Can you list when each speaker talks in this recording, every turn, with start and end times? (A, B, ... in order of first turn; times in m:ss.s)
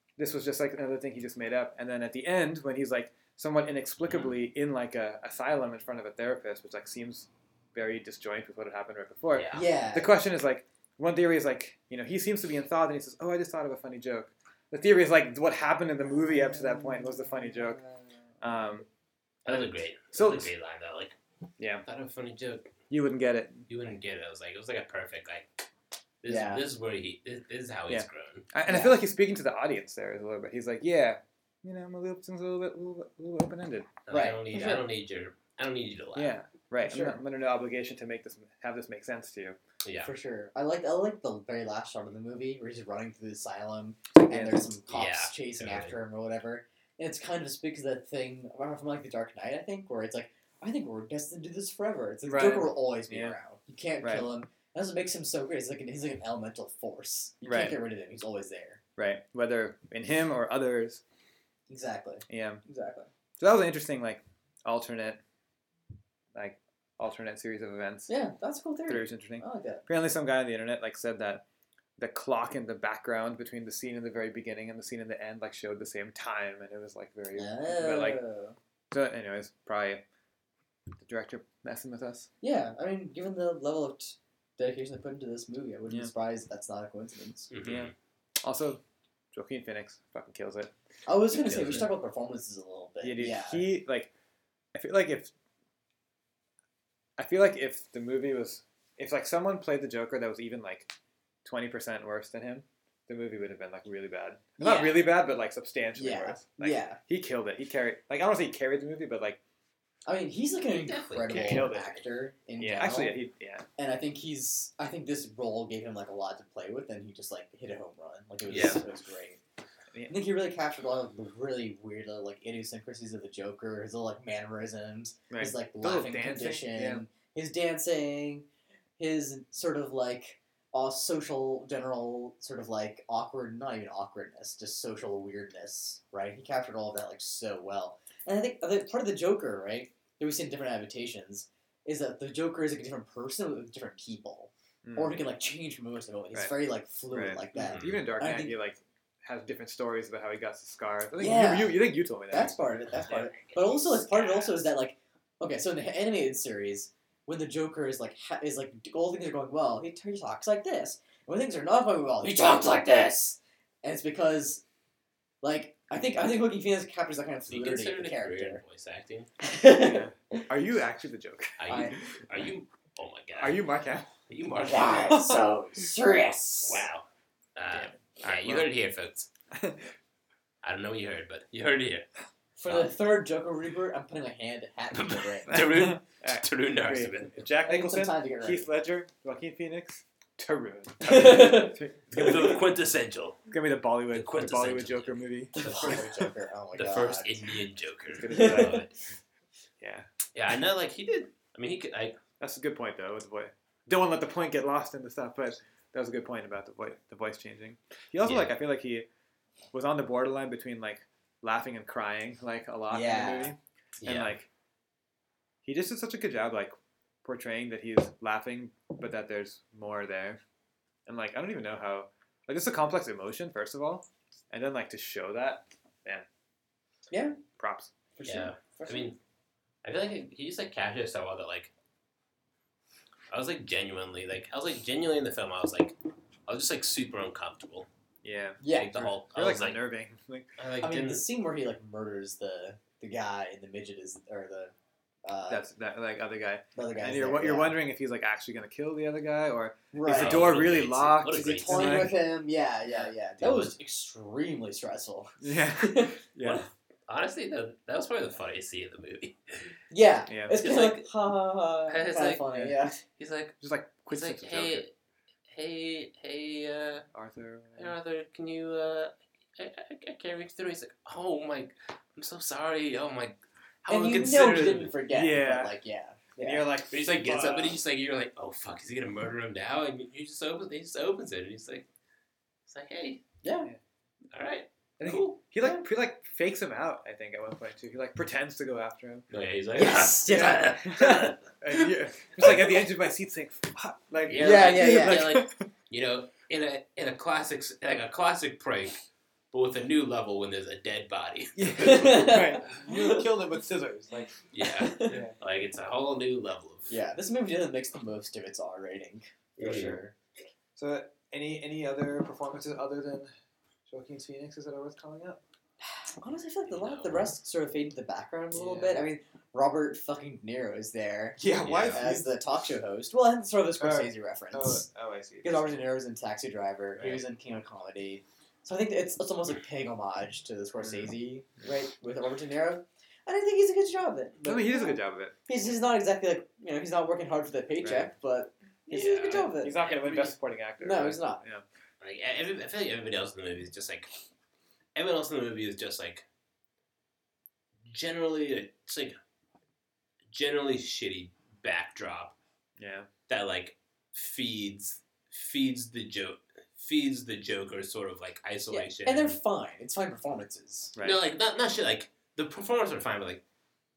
0:00.2-0:17.8 A
0:04.1-0:04.4 B
0:09.3-0:09.6 B
0:09.5-0:10.2 C
0:18.4-0:18.9 A
0:19.4-0:21.2 B
0:19.5-0:20.5 A
0:21.6-0:21.8 A
0:21.8-0:22.7 B
0:22.9-0:23.7 A
0:23.7-0:25.5 B
0:26.2-0:28.5 B
0:26.2-0:26.6 C
0:27.9-0:34.0 A
0:28.7-0:29.0 C
0:34.1-0:36.4 B
0:34.1-0:34.9 C
0:36.1-0:39.6 A
0:36.8-0:37.2 C
0:39.8-0:40.1 B
0:40.0-0:58.8 C
0:44.2-0:44.7 A
0:44.9-0:45.9 B
0:52.2-0:53.4 A
0:54.0-0:54.3 A
0:57.4-0:57.8 A
0:59.0-1:01.0 A
1:01.7-1:03.1 C
1:02.3-1:02.6 A
1:03.4-1:05.2 A
1:06.3-1:08.1 A
1:08.1-1:09.8 C
1:08.9-1:11.4 A
1:12.0-1:18.2 A
1:17.4-1:18.6 C
1:18.9-1:20.0 A
1:21.0-1:22.3 A
1:22.4-1:27.5 C
1:27.5-1:27.9 B
1:27.6-1:27.9 A
1:28.4-1:28.8 A
1:29.3-1:30.7 A
1:31.0-1:33.7 C
1:31.3-1:31.9 B
1:33.0-1:34.1 A
1:34.7-1:35.3 A
1:37.2-1:40.9 A
1:41.4-1:49.4 A
1:44.6-1:45.0 C
1:46.0-1:47.0 C
1:50.1-1:53.2 C
1:50.7-1:51.7 B
1:51.3-1:52.0 A
1:52.6-1:53.6 A
1:53.8-1:59.4 C
1:58.5-1:58.8 B
1:59.9-2:00.2 A
2:00.1-2:08.4 C
2:05.3-2:07.0 A
2:09.0-2:28.6 C
2:24.8-2:25.2 A
2:26.3-2:26.6 A
2:27.1-2:32.5 A
2:27.6-2:28.0 B
2:31.2-2:44.6 C
2:32.9-2:34.6 B
2:45.4-2:48.6 C
2:47.5-2:49.3 B
2:49.4-2:50.4 C
2:49.7-2:51.9 A
2:51.6-2:53.6 B
2:51.7-2:52.0 C
2:53.4-2:54.1 A
2:54.3-2:55.2 B
2:54.6-2:56.9 C
2:55.0-2:55.9 A
2:56.6-2:59.3 B
2:57.7-2:58.7 A
2:59.5-2:59.9 A
3:00.6-3:02.1 B
3:02.6-3:05.6 C
3:04.9-3:07.4 B
3:05.5-3:12.6 A
3:07.6-3:08.7 C
3:11.0-3:12.3 C
3:11.1-3:13.4 B
3:13.5-3:16.2 A
3:14.1-3:16.1 B
3:15.5-3:17.4 C
3:16.8-3:18.9 B
3:18.1-3:18.9 A
3:18.3-3:18.8 C
3:19.8-3:20.1 A
3:20.3-3:22.2 B
3:22.4-3:29.1 A
3:28.2-3:28.5 B
3:29.7-3:34.5 A
3:32.9-3:33.6 C
3:34.0-3:34.4 B
3:35.6-3:36.7 A
3:37.2-3:40.4 A
3:41.1-3:46.2 A
3:47.1-3:47.4 C
3:47.6-3:47.9 A
3:48.2-3:49.1 C
3:48.2-3:49.2 B
3:49.8-3:51.7 B
3:53.3-3:55.9 B
3:56.5-3:57.9 B
3:58.2-4:00.5 A
3:58.6-3:58.9 C
3:58.7-3:59.8 B
4:00.6-4:01.2 B
4:00.8-4:05.6 C
4:05.5-4:12.2 A
4:06.7-4:07.8 C
4:09.9-4:10.7 C
4:10.1-4:12.1 B
4:11.4-4:16.2 C
4:13.4-4:13.7 B
4:15.4-4:16.6 A
4:16.4-4:19.8 B
4:19.9-4:23.0 C
4:20.3-4:20.6 A
4:20.5-4:21.1 B
4:21.9-4:23.6 B
4:23.6-4:24.8 A
4:24.1-4:24.9 B
4:25.5-4:27.1 B
4:27.1-4:28.0 A
4:27.8-4:34.9 B
4:33.9-4:36.7 C
4:35.1-4:35.8 A
4:36.4-4:37.8 A
4:36.9-4:41.9 B
4:42.7-4:43.2 B
4:43.4-4:43.7 C
4:44.3-4:45.4 B
4:45.0-4:49.2 A
4:49.3-4:51.5 B
4:49.8-4:50.7 C
4:50.2-4:55.7 A
4:54.3-4:59.0 B
4:54.4-4:55.3 C
4:59.5-5:02.4 B
5:01.6-5:03.3 C
5:01.7-5:04.4 A
5:04.5-5:07.0 B
5:04.6-5:05.2 C
5:05.0-5:05.4 A
5:06.9-5:10.1 C
5:09.6-5:10.0 B
5:10.8-5:13.3 A
5:13.9-5:15.4 A
5:15.8-5:24.9 C
5:16.7-5:17.3 B
5:18.5-5:19.0 A
5:21.4-5:22.3 A
5:21.6-5:22.0 B
5:23.8-5:25.8 A
5:25.4-5:39.8 C
5:30.8-5:31.1 A
5:34.4-5:35.4 A
5:37.8-5:38.1 A
5:38.9-5:40.3 B
5:38.9-5:41.6 A
5:40.8-5:41.4 C
5:42.0-5:44.1 B
5:44.9-5:46.2 B
5:47.9-5:49.1 B
5:50.3-5:52.4 B
5:52.8-5:53.1 A
5:53.3-5:59.4 B
5:58.7-6:00.9 C
6:01.0-6:01.2 A
6:01.0-6:03.4 B